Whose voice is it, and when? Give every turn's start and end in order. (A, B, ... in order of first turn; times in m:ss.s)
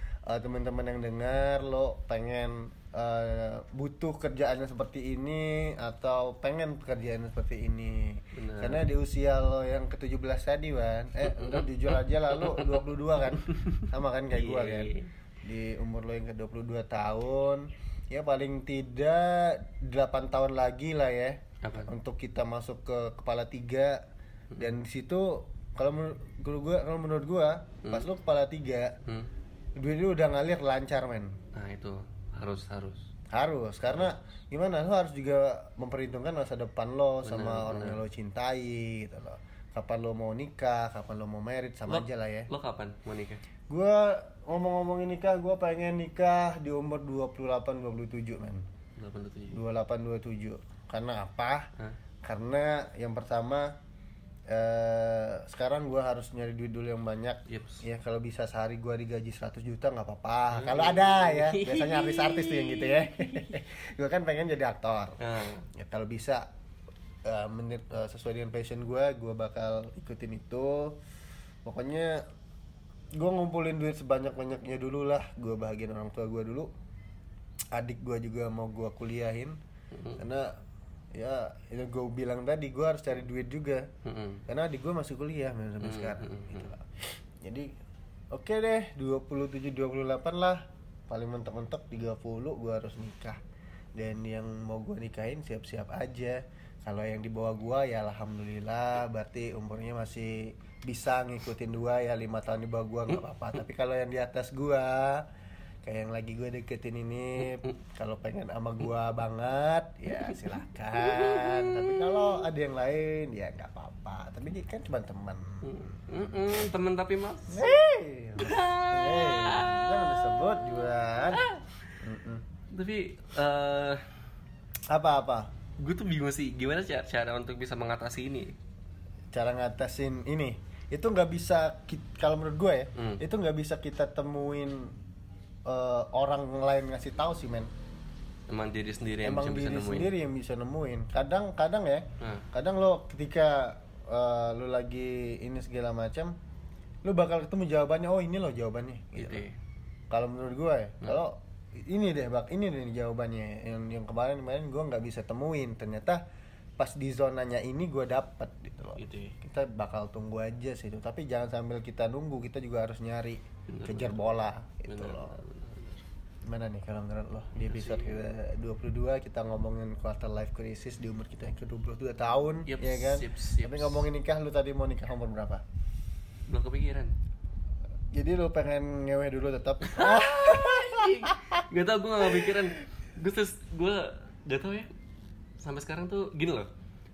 0:00.3-0:24.0 A
0:08.3-0:08.8 B
0:11.2-0:12.8 B
0:13.5-0:15.1 B
0:21.6-0:21.9 B
0:24.6-0:29.0 A
0:29.0-0:29.3 B
0:29.8-0:31.4 A
0:31.5-0:33.1 B
0:33.3-0:42.5 A
0:37.2-0:38.0 B
0:41.9-0:43.4 B
0:43.7-0:48.7 A
0:49.0-0:49.6 B
0:49.5-0:51.7 A
0:52.2-0:53.8 A
0:54.5-1:05.2 A
0:57.5-0:57.8 B
1:00.5-1:03.5 B
1:05.2-1:05.7 B
1:05.7-1:06.5 A
1:07.2-1:11.0 A
1:11.6-1:12.2 A
1:13.1-1:16.7 A
1:17.7-1:19.6 A
1:19.9-1:20.2 B
1:20.2-1:20.6 A
1:21.1-1:23.9 A
1:24.0-1:24.4 B
1:24.5-1:27.7 A
1:25.8-1:26.7 B
1:28.3-1:33.4 A
1:34.0-1:45.3 A
1:45.8-1:55.7 A
1:51.0-1:52.2 B
1:55.6-1:57.7 B
1:57.5-2:01.4 A
1:58.4-2:00.4 B
2:01.3-2:01.6 B
2:02.0-2:02.4 A
2:02.7-2:04.0 B
2:04.9-2:05.5 A
2:05.8-2:08.6 B
2:09.3-2:14.9 A
2:13.0-2:13.2 B
2:15.7-2:17.7 A
2:18.5-2:20.1 B
2:19.2-2:26.4 A
2:22.2-2:22.5 B
2:27.0-2:29.5 A
2:29.2-2:29.6 B
2:30.1-2:36.2 A
2:36.8-2:45.4 A
2:39.0-2:39.4 B
2:43.7-2:46.0 B
2:46.4-2:55.6 A
2:47.6-2:48.2 B
2:52.7-2:54.1 B
2:56.5-2:57.2 B
2:58.1-3:01.6 A
2:59.8-3:04.9 B
3:02.2-3:02.7 A
3:05.6-3:06.7 B